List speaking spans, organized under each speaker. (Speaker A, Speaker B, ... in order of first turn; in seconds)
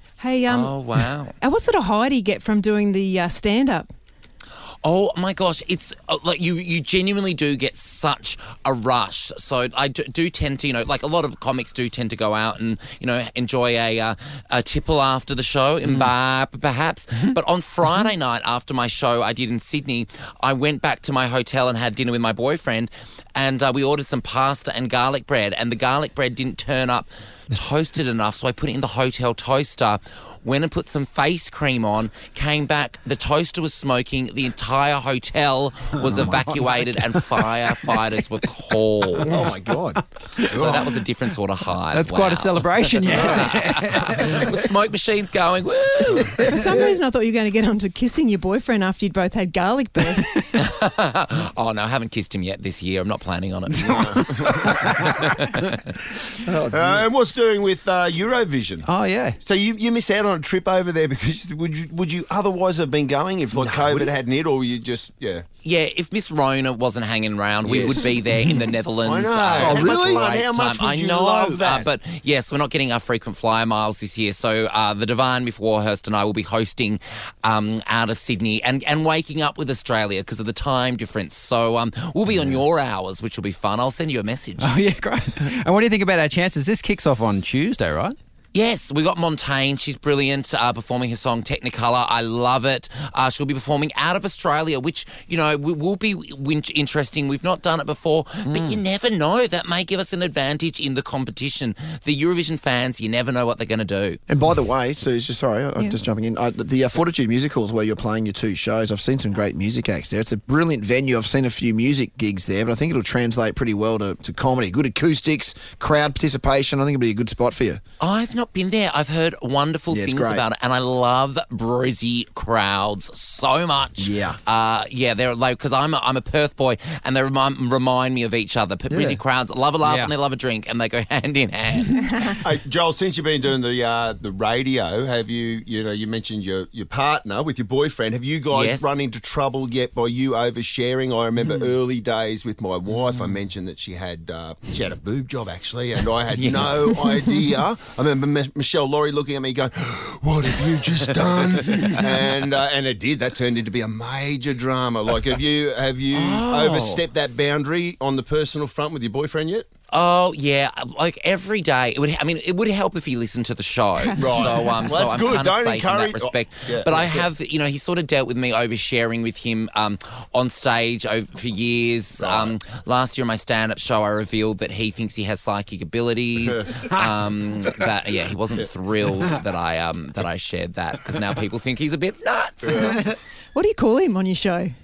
Speaker A: 0.2-3.9, 46.5-50.4, 164.0-165.1, 182.7-184.7
Speaker B: 0.5-1.3, 4.8-39.4, 40.4-46.5, 50.6-55.9, 65.6-84.8, 88.5-104.2, 118.0-132.3, 138.5-139.0, 141.4-141.7, 143.1-143.3, 146.3-147.4, 151.2-152.1, 156.1-157.0, 159.9-182.9
Speaker C: 36.1-36.5, 40.4-40.7, 41.9-44.5, 50.1-50.4, 53.8-55.6, 58.9-59.4, 84.6-88.2, 129.8-130.1
Speaker D: 39.3-40.0, 40.5-40.9, 46.6-47.0, 56.5-57.0, 63.6-64.1, 69.6-70.2, 98.5-98.8, 104.3-117.8, 119.9-120.5, 124.0-124.4, 128.9-129.2
Speaker E: 53.8-55.1, 56.6-58.9, 59.4-65.4, 67.6-68.1, 69.0-71.9, 132.3-159.7, 164.2-167.3, 172.2-172.5, 182.6-183.0